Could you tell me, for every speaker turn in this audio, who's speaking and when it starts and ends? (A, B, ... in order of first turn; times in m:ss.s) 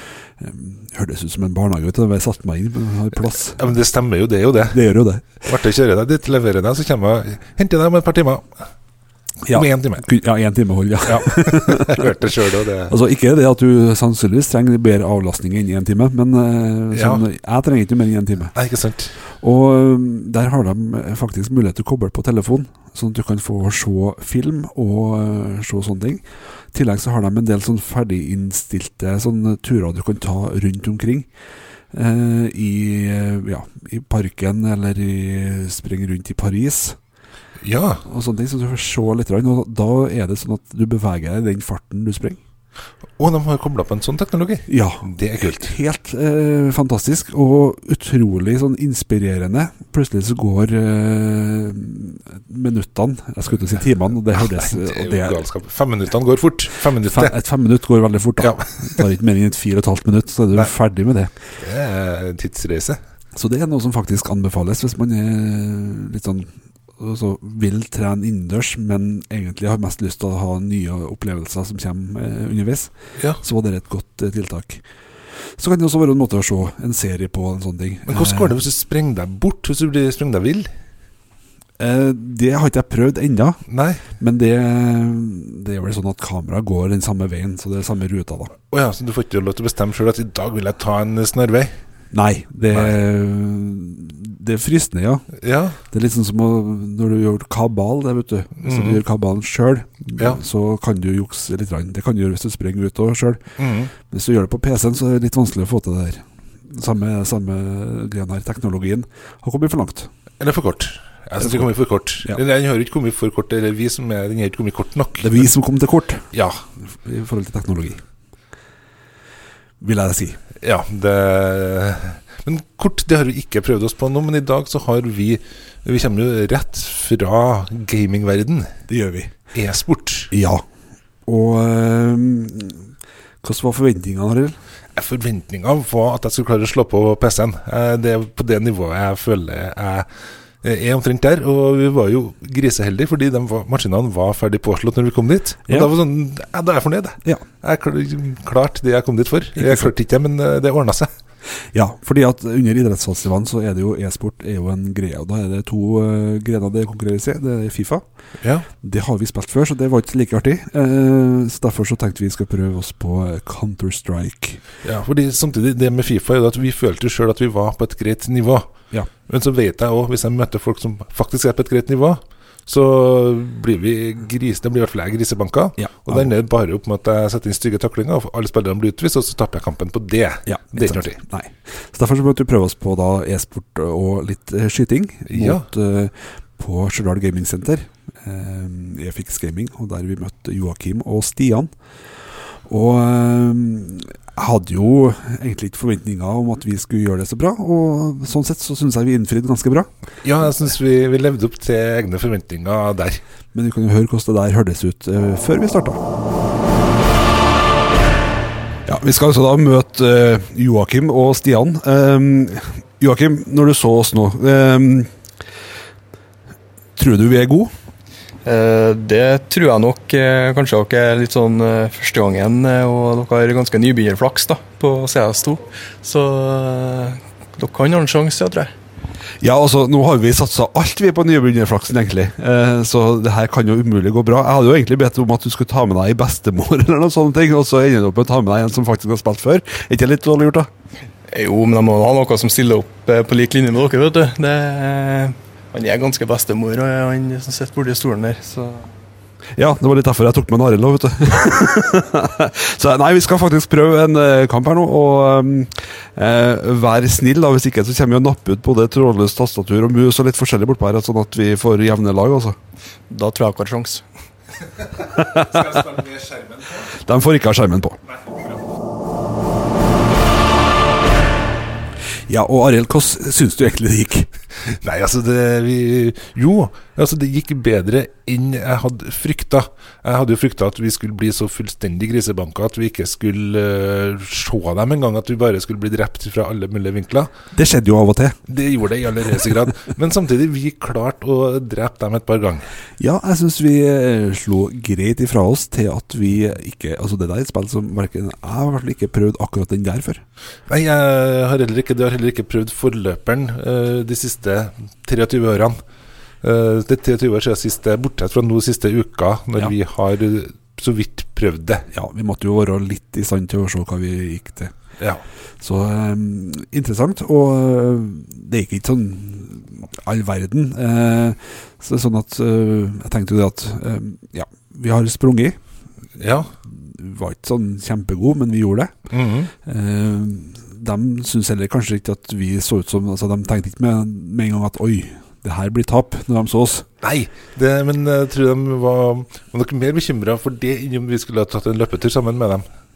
0:00.4-0:03.7 A
0:03.5-0:04.8 B
0:04.7-0:05.4 A
0:05.4-0:08.5 B
0:09.4-0:12.3 A
0:09.5-0:10.0 B
0:11.0-0:12.9 B
0:12.9-0:18.5 A
0:16.9-0:17.2 B
0:18.5-0:19.1 B
0:19.4-0:31.3 A
0:31.9-0:37.0 A
0:37.6-0:38.0 B
0:38.0-0:42.4 A
0:43.2-0:45.8 B
0:44.7-0:55.5 A
0:54.3-0:57.4 B
0:57.0-1:01.3 A
0:58.4-0:59.0 B
1:01.6-1:03.0 B
1:03.4-1:14.8 A
1:15.6-1:18.6 A
1:18.0-1:20.7 B
1:21.8-1:23.6 A
1:23.7-1:24.1 B
1:24.2-1:28.5 A
1:28.7-1:31.7 B
1:32.1-1:35.2 A
1:32.7-1:33.0 B
1:35.4-1:35.8 B
1:35.9-1:43.4 A
1:38.6-1:39.0 B
1:43.6-1:43.9 B
1:44.1-1:50.1 A
1:50.4-1:55.5 B
1:51.4-1:51.7 A
1:55.2-1:56.2 A
1:56.9-1:58.0 A
1:59.8-2:00.4 A
2:00.6-2:08.7 B
2:08.9-2:09.3 A
2:09.5-2:10.3 B
2:10.3-2:10.6 A
2:11.3-2:12.9 A
2:13.4-2:14.5 A
2:15.0-2:20.1 B
2:20.6-2:31.1 B
2:29.6-2:29.9 A
2:31.7-2:38.0 A
2:38.4-2:38.7 B
2:38.8-2:44.6 A
2:44.8-2:48.7 B
2:49.3-3:01.2 B
2:55.8-2:56.3 A
3:00.4-3:11.7 A
3:05.2-3:05.7 B
3:12.7-3:19.9 A
3:20.2-3:23.2 B
3:23.5-3:26.0 A
3:28.8-3:35.1 A
3:37.0-3:37.7 A
3:38.4-3:48.7 C
3:49.4-4:00.7 A
4:01.3-4:08.9 C
4:09.6-4:22.6 A
4:23.1-4:24.0 C
4:25.1-4:26.0 A
4:25.7-4:26.4 B
4:26.9-4:28.0 A
4:32.3-4:34.3 A
4:34.6-4:47.3 B
4:47.5-4:48.4 A
4:48.5-4:52.7 B
4:53.0-5:00.2 A
5:00.7-5:05.8 B
5:06.4-5:11.9 B
5:11.9-5:14.7 A
5:15.6-5:25.6 A
5:26.2-5:26.5 B
5:26.2-5:28.9 A
5:29.1-5:29.5 B
5:29.6-5:36.8 A
5:37.0-5:42.6 B